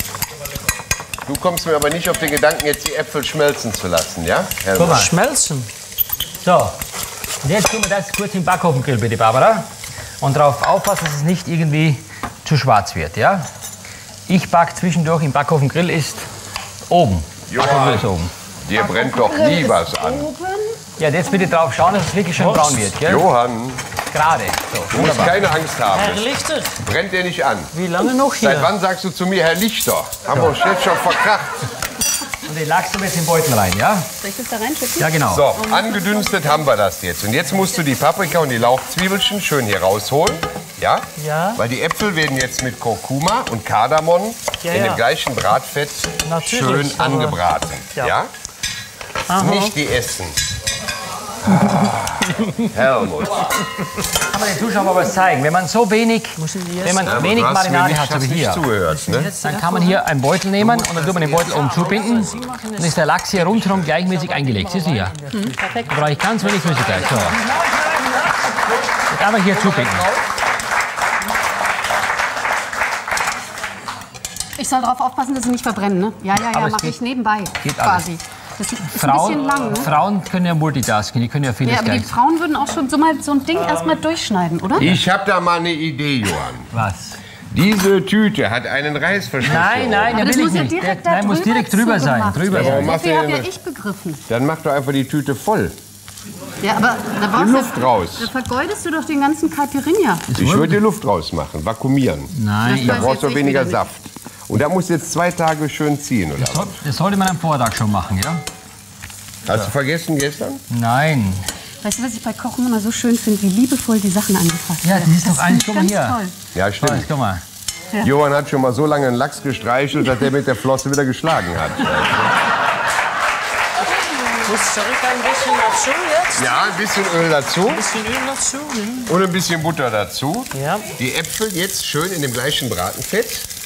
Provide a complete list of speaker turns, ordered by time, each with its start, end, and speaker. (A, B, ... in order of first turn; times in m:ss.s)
0:01.2-0:05.1 A
0:04.8-0:05.1 B
0:04.8-0:05.7 C
0:06.4-0:06.8 B
0:07.4-0:09.7 B
0:10.2-0:13.5 B
0:14.3-0:16.3 B
0:16.9-0:18.3 B
0:17.5-0:18.1 A
0:18.6-0:20.3 A
0:18.8-0:20.8 D
0:21.0-0:23.2 B
0:22.4-0:22.8 C
0:23.0-0:23.8 A
0:24.1-0:25.5 B
0:24.9-0:27.7 A
0:25.9-0:26.8 C
0:27.7-0:28.7 C
0:28.4-0:31.6 A
0:32.4-0:34.1 B
0:34.2-0:36.6 D
0:35.0-0:35.5 B
0:35.3-0:48.3 A
0:41.2-0:41.6 C
0:44.6-0:45.0 C
0:46.2-0:47.4 C
0:49.3-0:49.7 C
0:49.3-0:50.4 A
0:51.4-0:53.6 A
0:54.2-0:58.7 B
0:56.4-0:57.2 C
0:57.0-0:59.3 A
0:58.9-1:00.0 C
0:59.4-1:05.2 B
1:00.6-1:02.4 A
1:00.6-1:03.1 C
1:03.3-1:03.9 A
1:03.9-1:05.9 C
1:05.3-1:06.1 D
1:05.9-1:07.4 B
1:06.5-1:08.5 C
1:09.1-1:10.0 B
1:09.7-1:10.0 A
1:14.6-1:19.9 D
1:16.4-1:17.0 B
1:17.6-1:18.1 B
1:18.9-1:22.1 B
1:19.4-1:19.8 C
1:21.6-1:24.9 D
1:23.5-1:24.1 C
1:24.8-1:26.7 A
1:24.8-1:25.0 B
1:26.7-1:27.2 B
1:27.5-1:30.4 A
1:29.4-1:32.9 B
1:30.1-1:34.2 D
1:32.5-1:33.5 A
1:34.3-1:35.8 A
1:36.6-1:40.2 D
1:37.3-1:38.3 A
1:40.3-1:40.8 B
1:40.4-1:46.8 A
1:42.3-1:43.1 B
1:42.6-1:43.8 D
1:46.4-1:48.4 B
1:49.4-1:50.6 A
1:50.7-1:51.5 B
1:51.8-1:56.3 D
1:54.8-1:56.2 B
1:56.5-1:57.1 A
1:56.8-1:57.4 B
1:58.0-2:02.3 A
2:04.4-2:06.5 C
2:06.4-2:07.8 A
2:07.7-2:09.1 C
2:09.0-2:13.5 A
2:10.5-2:10.9 C